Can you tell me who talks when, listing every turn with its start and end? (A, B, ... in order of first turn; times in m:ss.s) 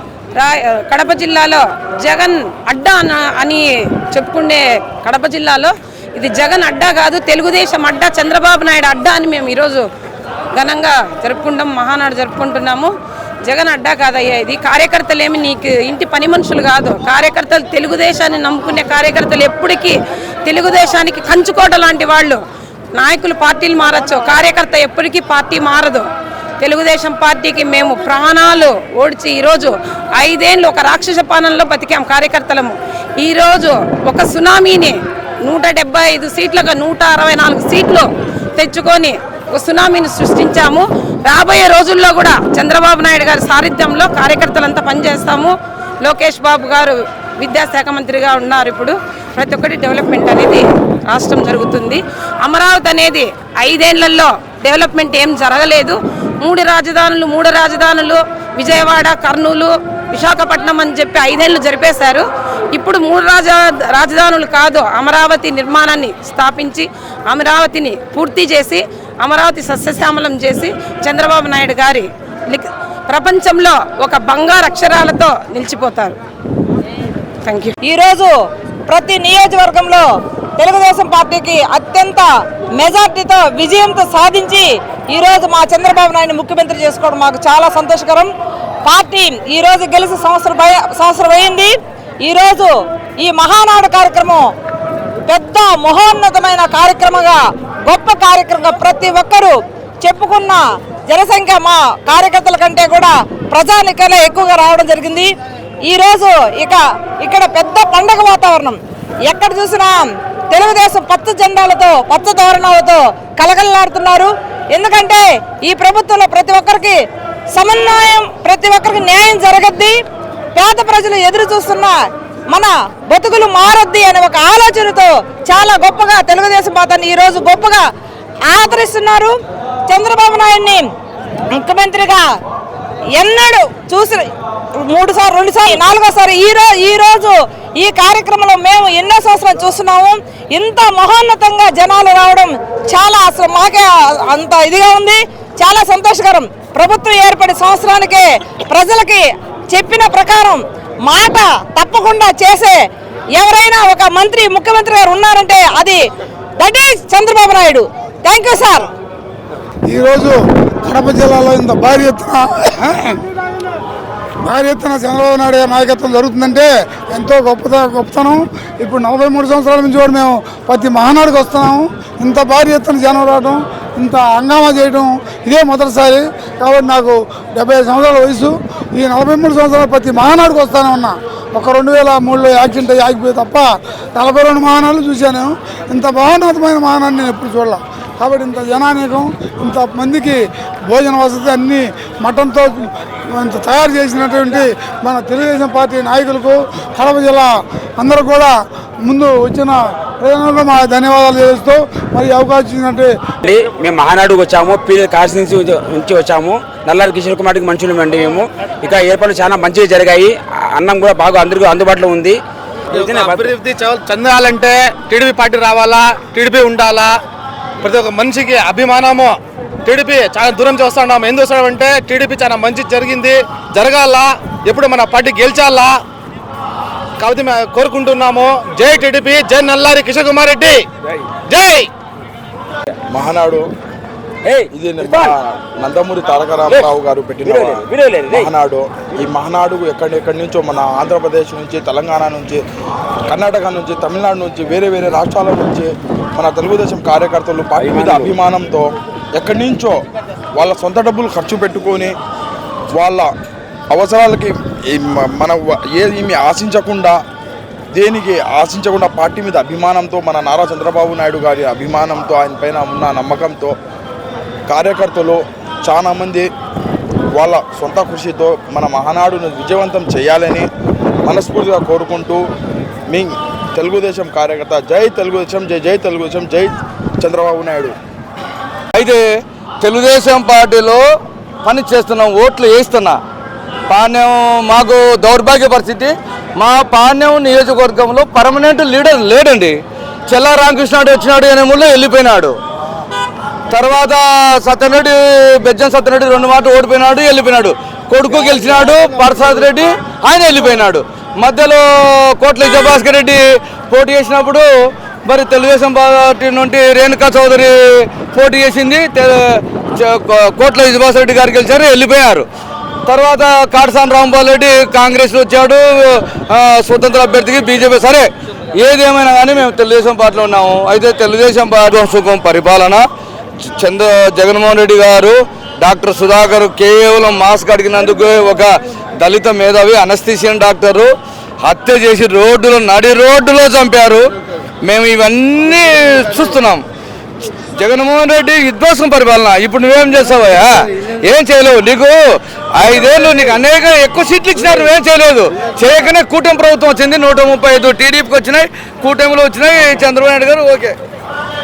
0:00.4-0:09.8 A
0:10.5-0:12.9 A
0:13.4-0:22.4 A
0:22.9-0:26.1 A
0:26.6-1:16.2 A
1:17.4-1:17.7 A
1:17.8-1:18.3 B
1:18.9-1:20.0 B
1:20.6-1:28.3 B
1:28.8-1:34.5 B
1:35.3-1:45.3 B
1:45.8-1:57.0 B
1:57.5-2:00.0 B
2:00.5-2:07.8 B
2:08.4-2:09.3 B
2:09.9-2:10.9 B
2:11.5-2:12.2 B
2:13.2-2:32.8 B
2:33.3-2:36.0 B
2:36.6-2:38.9 B
2:39.9-2:43.2 C
2:44.5-3:10.4 C
3:10.9-3:23.3 C
3:23.4-3:32.4 D
3:32.9-3:33.6 D
3:32.9-3:37.2 E
3:37.8-3:46.0 E
3:47.2-3:50.9 E
3:51.5-3:51.9 E
3:53.1-3:53.6 F
3:54.4-3:55.3 D
3:54.7-4:02.6 F
3:57.4-3:58.5 D
4:03.3-4:10.0 F
4:07.8-4:08.3 D
4:10.6-4:12.1 F
4:12.9-4:13.3 F
4:13.9-4:17.2 F
4:17.9-4:23.7 F
4:24.7-4:26.5 F
4:27.3-4:30.7 F
4:31.2-4:32.4 F
4:33.1-4:37.9 F
4:38.9-4:39.2 G
4:39.8-4:41.0 G
4:41.6-4:43.2 G
4:43.9-4:52.5 G
4:53.7-5:01.8 G
5:02.4-5:04.7 G
5:05.2-5:12.4 G
5:13.0-5:23.0 G
5:23.8-5:31.1 G
5:31.6-5:34.3 G
5:34.8-5:36.8 G
5:37.8-5:42.2 G
5:42.7-5:50.9 G